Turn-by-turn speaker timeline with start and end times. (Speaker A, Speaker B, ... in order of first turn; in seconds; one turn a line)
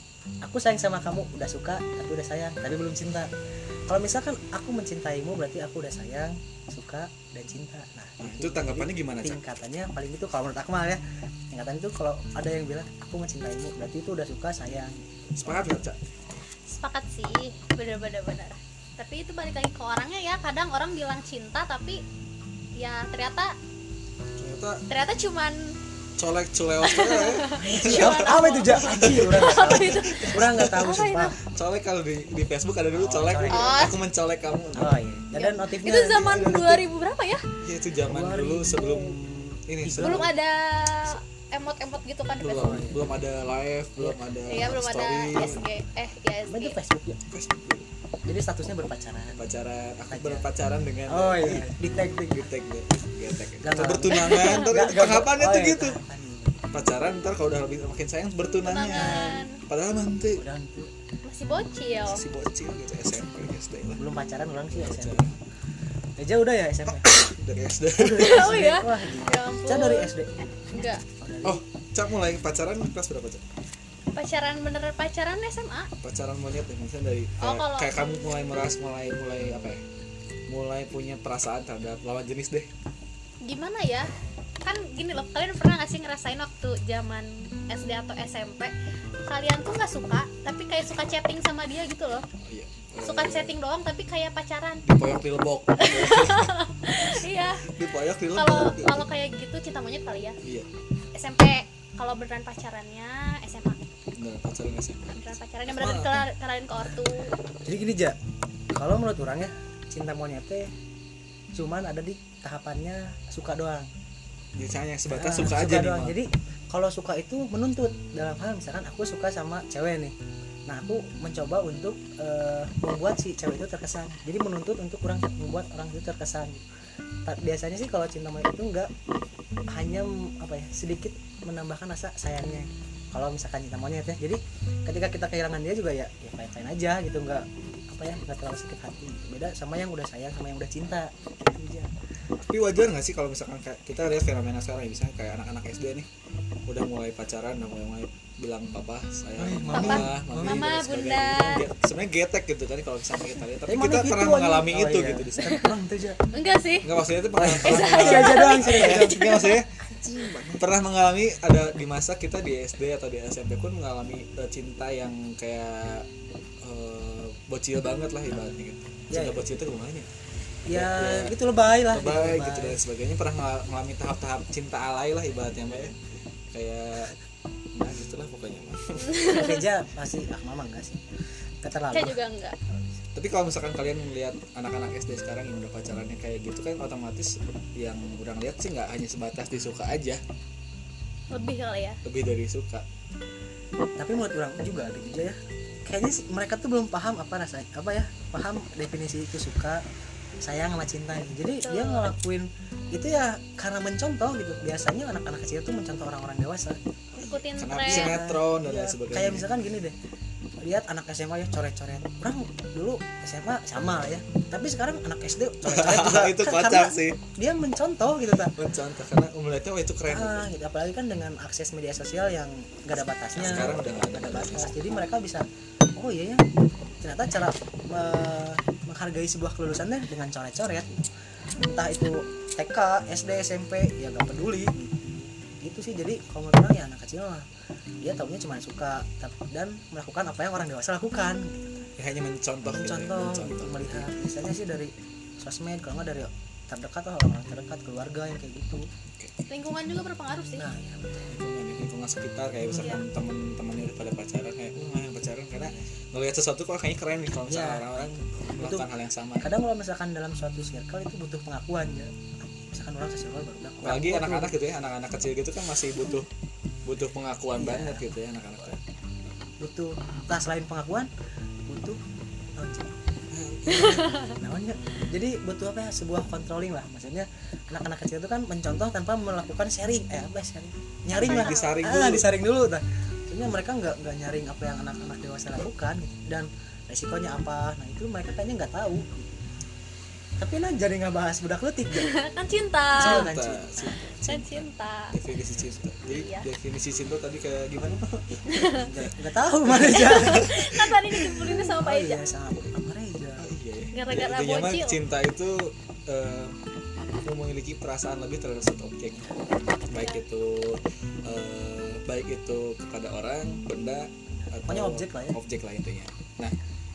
Speaker A: 0.4-3.3
Speaker A: 3.9-11.0
Speaker B: 8.2-9.4
Speaker A: 11.5-14.9
Speaker B: 15.3-16.0
Speaker C: 16.7-22.0
Speaker C: 22.8-23.6
Speaker B: 24.4-24.8
Speaker C: 24.9-25.8
Speaker B: 26.2-35.0
Speaker C: 26.8-31.4
Speaker A: 27.6-31.4
Speaker A: 32.9-33.9
Speaker C: 33.5-33.9
Speaker A: 34.8-36.8
Speaker C: 35.3-37.4
Speaker B: 37.6-40.3
Speaker A: 38.0-39.1
Speaker A: 39.8-40.3
Speaker C: 40.0-42.8
Speaker B: 42.4-45.6
Speaker A: 42.5-43.0
Speaker C: 44.5-46.8
Speaker A: 45.4-45.6
Speaker A: 46.5-47.2
Speaker B: 47.3-47.9
Speaker A: 48.2-49.4
Speaker B: 49.3-56.0
Speaker A: 50.1-50.5
Speaker A: 51.1-52.4
Speaker A: 53.6-56.6
Speaker C: 54.1-54.7
Speaker B: 56.7-60.4
Speaker C: 58.6-59.6
Speaker A: 58.9-59.4
Speaker A: 60.3-60.9
Speaker C: 61.2-62.2
Speaker B: 62.1-64.0
Speaker A: 64.0-65.2
Speaker B: 64.7-65.4
Speaker A: 66.2-67.1
Speaker B: 67.0-68.5
Speaker A: 67.9-70.3
Speaker C: 68.2-70.1
Speaker C: 70.7-71.0
Speaker A: 71.2-71.6
Speaker B: 71.4-73.4
Speaker C: 74.1-75.9
Speaker B: 76.0-79.8
Speaker C: 77.4-77.9
Speaker B: 80.5-82.7
Speaker C: 83.4-84.1
Speaker C: 84.6-88.7
Speaker C: 89.3-92.2
Speaker B: 92.4-93.6
Speaker C: 93.0-94.8
Speaker B: 94.8-99.0
Speaker C: 95.8-97.7
Speaker C: 98.3-100.4
Speaker B: 100.4-100.7
Speaker C: 101.1-103.8
Speaker B: 104.2-106.2
Speaker C: 105.1-107.3
Speaker A: 107.6-108.2
Speaker A: 108.7-110.7
Speaker A: 111.5-113.9
Speaker B: 114.5-116.2
Speaker A: 115.1-120.1
Speaker A: 120.7-126.6
Speaker A: 127.2-128.9
Speaker A: 129.7-141.9
Speaker B: 142.3-146.1
Speaker B: 146.7-155.6
Speaker A: 149.4-150.6
Speaker C: 149.7-151.6
Speaker A: 153.7-156.2
Speaker C: 155.4-155.7
Speaker C: 156.3-156.9
Speaker B: 156.8-159.8
Speaker A: 157.3-160.7
Speaker C: 157.6-159.6
Speaker B: 160.6-166.1
Speaker B: 166.6-170.1
Speaker A: 169.1-169.4
Speaker A: 170.7-172.8
Speaker B: 170.7-171.3
Speaker B: 171.9-175.9
Speaker B: 176.5-177.2
Speaker B: 177.7-179.5
Speaker C: 179.1-179.6
Speaker A: 179.2-181.0
Speaker A: 181.6-182.2
Speaker C: 181.9-182.6
Speaker B: 183.1-190.2
Speaker C: 191.3-192.0
Speaker B: 192.0-192.8
Speaker A: 194.0-199.8
Speaker A: 200.4-209.9
Speaker C: 201.6-202.1
Speaker C: 207.2-208.1
Speaker B: 207.5-209.5
Speaker A: 210.6-218.5
Speaker B: 215.6-217.2
Speaker B: 218.4-220.5
Speaker A: 220.1-226.4
Speaker B: 223.3-224.7
Speaker A: 227.0-231.0
Speaker A: 231.6-237.5
Speaker A: 238.0-241.9
Speaker B: 242.0-244.1
Speaker A: 242.7-248.9
Speaker B: 249.2-249.4
Speaker C: 249.5-250.6
Speaker A: 250.6-251.3
Speaker B: 251.3-259.5
Speaker A: 257.5-258.9
Speaker A: 259.4-264.5
Speaker B: 263.8-266.3
Speaker B: 266.9-268.8
Speaker A: 267.6-268.0
Speaker A: 269.6-271.1
Speaker A: 271.7-272.0
Speaker A: 272.6-272.9
Speaker B: 273.3-274.1
Speaker C: 273.7-274.4
Speaker A: 273.7-289.4
Speaker C: 281.1-281.8
Speaker B: 281.1-282.3
Speaker A: 290.4-292.2
Speaker C: 291.9-293.3
Speaker B: 292.9-299.1
Speaker A: 293.0-294.0
Speaker C: 294.2-295.1
Speaker C: 296.1-296.4
Speaker C: 298.4-298.8
Speaker A: 298.6-300.5
Speaker B: 299.6-301.6
Speaker C: 299.8-302.3
Speaker A: 301.5-303.5
Speaker B: 303.4-306.6
Speaker C: 303.9-305.0
Speaker B: 307.2-309.3
Speaker B: 309.9-316.6
Speaker A: 314.3-315.4